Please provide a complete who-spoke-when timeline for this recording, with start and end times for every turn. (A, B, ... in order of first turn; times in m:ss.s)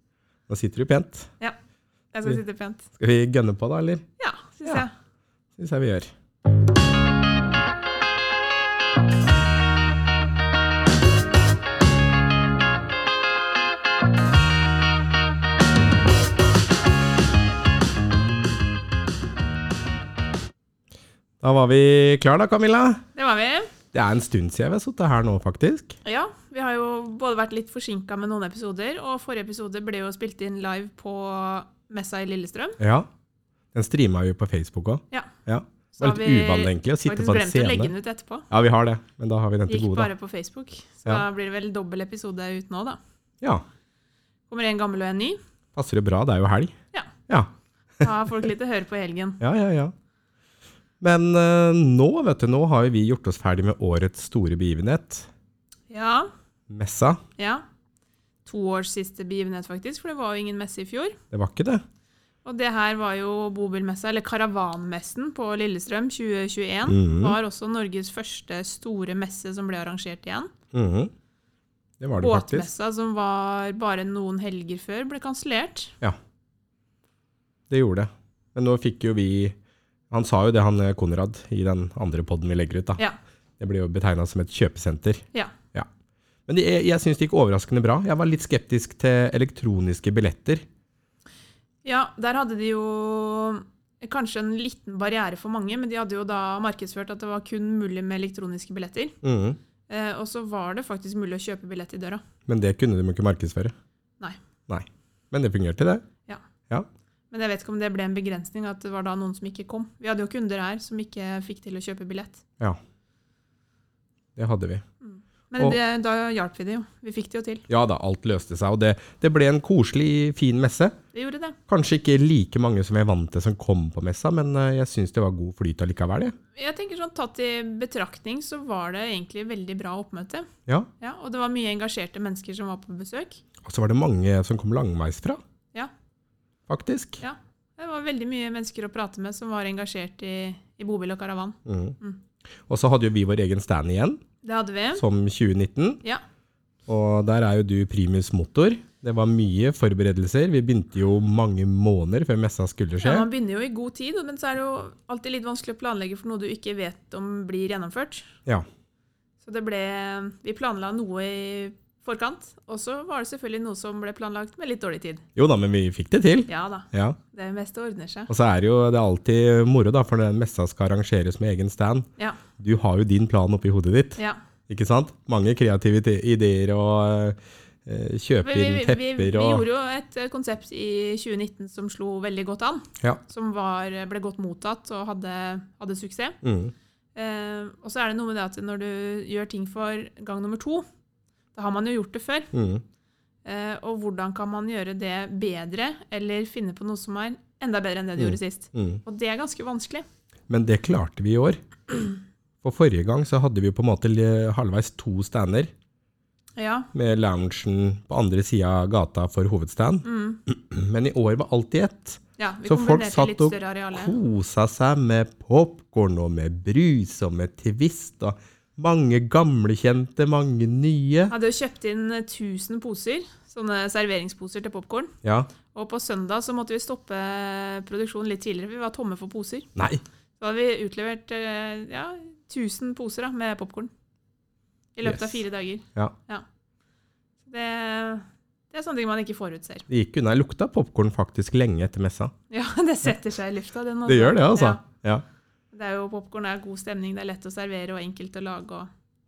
0:00.5-0:01.3 A
0:02.1-0:02.8 B
0:03.0-0:04.0 A
0:04.2-0:04.9 B
0:05.6-0:06.1 A
0:21.4-0:23.0 A
0:23.1-0:23.7 B
0:23.9-0:26.0 A
0:26.0-0:32.8 B
0:32.8-0:33.1 A
0:33.7-0:37.9 A
0:35.9-0:38.5 B
0:38.5-0:40.1 A
0:39.7-0:43.0 B
0:44.5-0:45.4 B
0:45.7-0:46.7 A
0:47.3-0:48.1 A
0:48.0-0:49.4 B
0:49.4-0:49.9 A
0:51.0-0:55.3 A
0:55.9-0:56.3 B
0:56.7-0:57.2 A
0:57.4-0:57.6 B
0:58.4-1:01.2 B
1:01.3-1:01.8 A
1:02.4-1:10.5 B
1:06.9-1:07.4 A
1:10.7-1:11.1 A
1:12.0-1:12.7 A
1:12.2-1:16.0 B
1:17.7-1:19.6 A
1:20.1-1:23.0 A
1:23.6-1:25.9 A
1:26.5-1:30.6 A
1:31.8-1:39.2 B
1:39.2-1:39.6 A
1:39.9-1:42.2 B
1:42.4-1:43.7 A
1:44.7-1:46.0 A
1:47.3-1:52.4 B
1:54.4-1:54.8 A
1:55.0-1:57.7 B
1:57.7-2:01.0 A
2:01.1-2:01.6 B
2:01.7-2:06.4 A
2:06.6-2:10.5 B
2:11.0-2:13.4 B
2:13.6-2:15.4 A
2:16.7-2:17.2 A
2:17.2-2:22.2 B
2:21.7-2:22.0 A
2:22.7-2:24.2 A
2:24.4-2:25.0 B
2:25.0-2:26.0 A
2:26.9-2:33.3 A
2:33.0-2:38.3 B
2:39.4-2:45.2 B
2:45.4-2:47.2 A
2:46.5-2:48.3 B
2:48.3-2:59.7 A
2:58.4-3:06.4 B
3:06.4-3:06.7 A
3:07.1-3:10.8 B
3:11.5-3:12.5 B
3:12.5-3:12.8 A
3:13.4-3:20.0 B
3:18.2-3:19.0 A
3:20.5-3:22.1 A
3:22.6-3:25.7 A
3:26.6-3:26.9 B
3:26.9-3:41.3 A
3:30.0-3:30.4 B
3:32.4-3:34.1 B
3:41.3-3:45.1 B
3:45.2-3:45.5 A
3:45.7-3:49.7 B
3:49.8-3:50.0 A
3:50.4-3:53.9 B
3:55.0-3:56.4 B
3:55.0-3:55.4 A
3:57.4-3:59.8 B
3:59.9-4:02.3 A
4:02.5-4:04.8 B
4:04.0-4:05.2 A
4:05.7-4:08.9 B